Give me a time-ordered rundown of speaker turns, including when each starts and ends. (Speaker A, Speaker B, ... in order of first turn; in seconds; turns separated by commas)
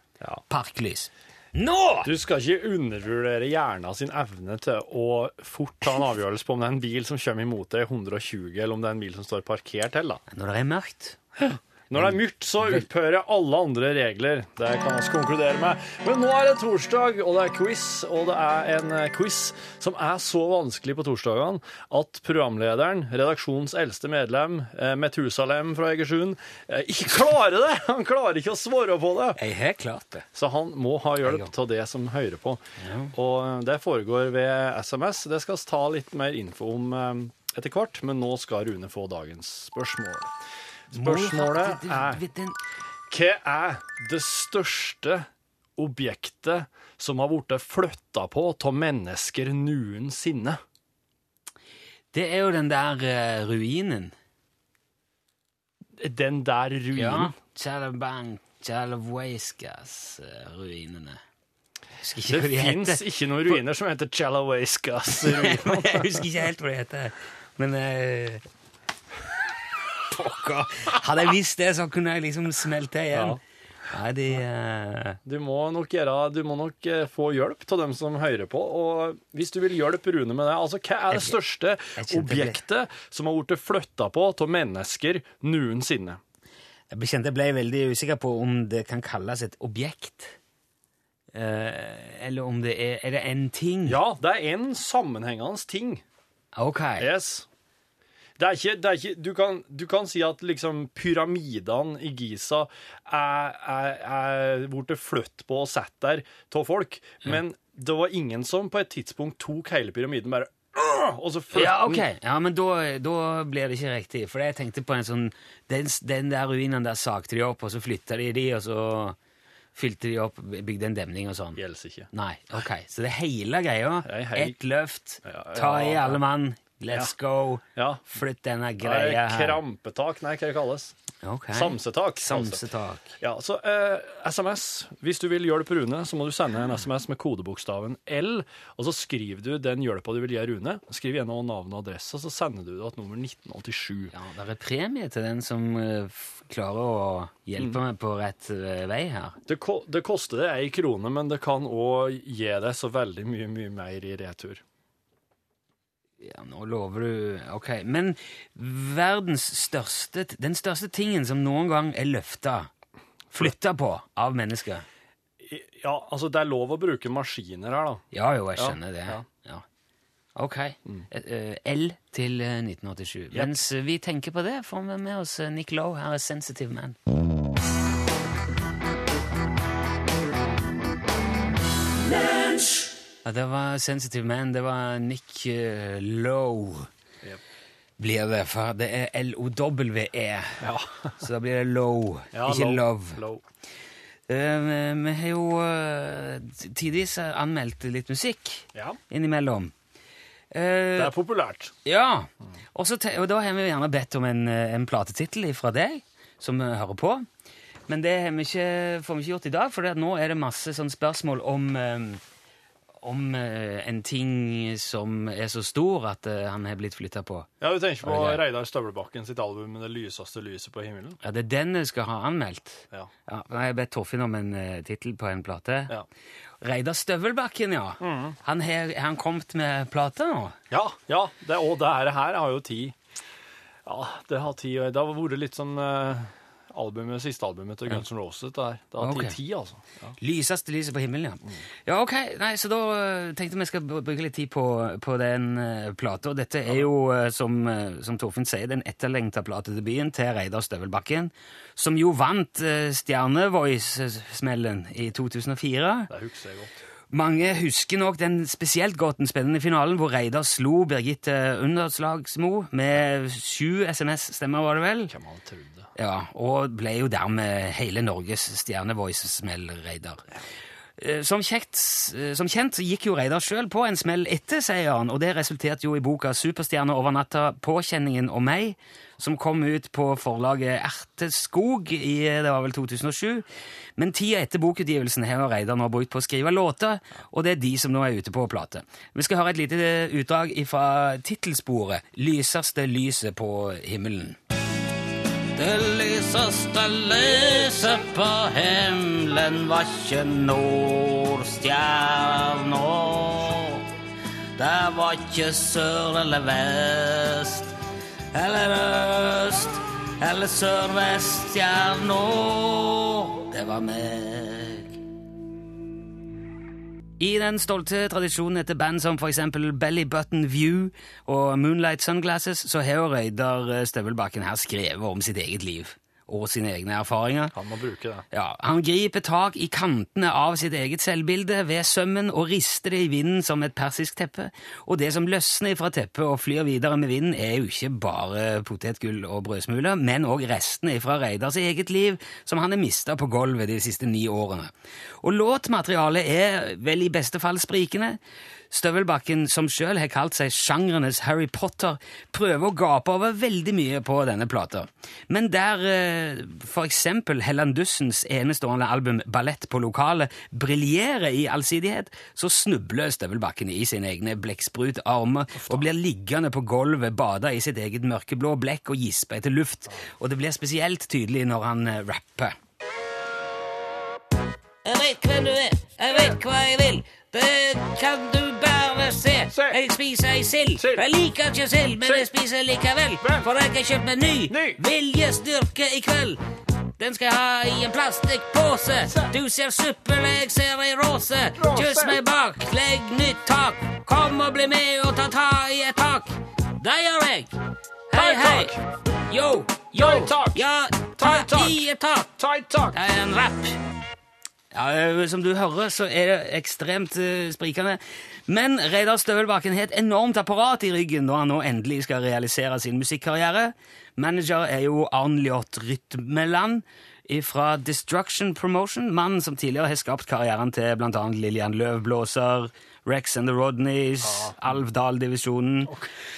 Speaker A: 0.5-2.1, Speaker B: 2.0-10.2, Speaker A: 10.3-11.2, Speaker B: 11.4-29.4, Speaker A: 11.9-12.8, Speaker A: 29.4-30.3, Speaker B: 30.3-32.6, Speaker A: 31.2-31.5, Speaker A: 32.8-33.1, Speaker B: 33.1-40.3, Speaker B: 40.9-42.2, Speaker A: 40.9-42.6, Speaker B: 43.1-50.6, Speaker A: 52.1-54.1, Speaker B: 56.0-57.4, Speaker A: 56.9-61.2, Speaker A: 62.0-63.0, Speaker B: 62.3-66.2, Speaker A: 65.2-68.4, Speaker A: 70.1-75.2, Speaker B: 73.1-73.4, Speaker B: 75.2-86.2, Speaker A: 81.1-81.4, Speaker A: 82.0-82.6, Speaker A: 86.9-90.4, Speaker A: 91.3-94.0, Speaker B: 93.9-96.0, Speaker A: 96.6-97.1, Speaker B: 97.0-97.5, Speaker B: 98.4-112.0, Speaker A: 111.5-119.2, Speaker A: 119.8-121.6, Speaker B: 121.6-122.6, Speaker A: 122.1-129.6, Speaker B: 124.0-124.6, Speaker B: 125.2-126.2, Speaker B: 127.8-128.1, Speaker B: 128.8-131.0, Speaker A: 131.2-133.1, Speaker B: 131.5-132.6, Speaker B: 133.2-144.1, Speaker A: 144.1-149.4, Speaker B: 149.5-154.6, Speaker A: 156.2-162.7, Speaker A: 163.3-164.8, Speaker B: 165.4-168.0, Speaker A: 168.1-169.6, Speaker B: 168.6-169.2, Speaker A: 170.4-177.0, Speaker B: 173.3-173.6, Speaker A: 183.2-186.9, Speaker A: 188.0-190.6, Speaker B: 190.6-191.2, Speaker A: 191.2-193.2, Speaker B: 192.3-193.4, Speaker A: 194.3-199.7, Speaker A: 200.5-201.2, Speaker B: 201.0-201.7, Speaker A: 201.8-207.3, Speaker A: 207.9-212.2, Speaker A: 213.0-217.5, Speaker B: 217.6-221.2, Speaker A: 218.0-218.4, Speaker A: 221.2-226.0, Speaker A: 226.6-230.6, Speaker B: 228.0-228.4, Speaker B: 230.7-233.0, Speaker B: 233.8-240.2, Speaker A: 239.0-239.4, Speaker A: 240.2-256.1, Speaker B: 256.1-256.8, Speaker A: 257.1-265.1, Speaker B: 265.1-265.9, Speaker A: 266.0-270.3, Speaker A: 271.0-283.4, Speaker A: 284.0-294.4, Speaker A: 295.6-303.9, Speaker A: 304.6-307.7, Speaker A: 308.3-315.0, Speaker A: 317.2-327.6, Speaker B: 327.5-328.3, Speaker A: 328.3-344.7, Speaker A: 345.2-348.2, Speaker A: 348.7-372.5, Speaker B: 365.6-365.9, Speaker A: 374.8-386.4, Speaker B: 379.5-379.8, Speaker B: 380.8-381.1, Speaker B: 382.0-382.3, Speaker B: 384.5-384.8, Speaker A: 387.0-397.5, Speaker B: 391.6-392.2, Speaker A: 398.1-398.8, Speaker B: 398.2-398.8, Speaker A: 399.3-403.8, Speaker B: 400.1-400.6, Speaker B: 401.2-401.8, Speaker B: 402.6-402.9, Speaker A: 404.7-425.9, Speaker B: 424.2-424.6